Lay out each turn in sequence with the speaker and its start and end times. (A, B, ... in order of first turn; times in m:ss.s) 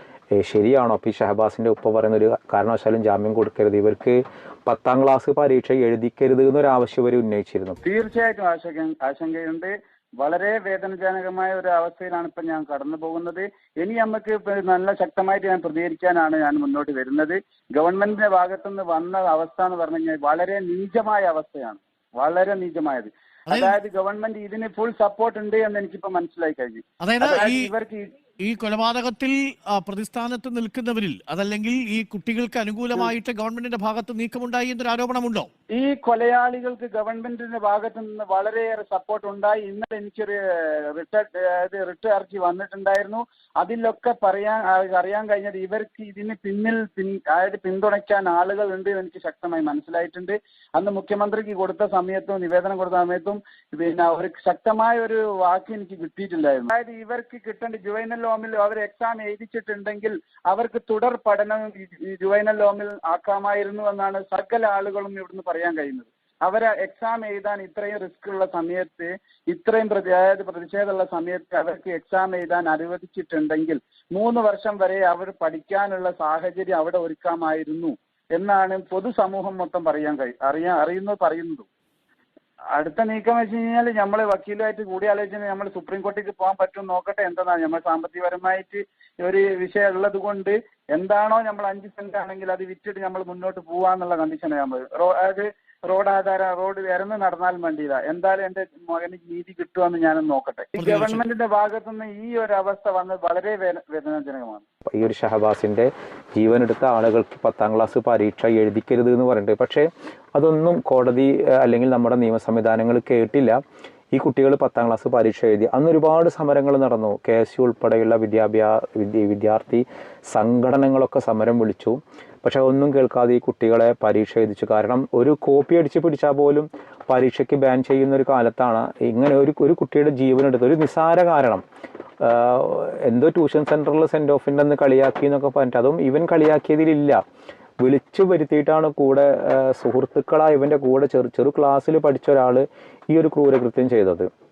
0:00.4-0:07.8 A
0:07.8-0:28.1 B
0:23.5-0:23.8 C
0:27.0-0:27.7 C
0:28.4-0:35.5 C
0:35.7-1:21.7 B
1:22.7-1:44.6 B
1:40.7-1:41.2 C
1:44.8-1:53.6 A
1:54.1-2:11.6 A
2:12.2-2:17.2 A
2:17.8-2:24.3 A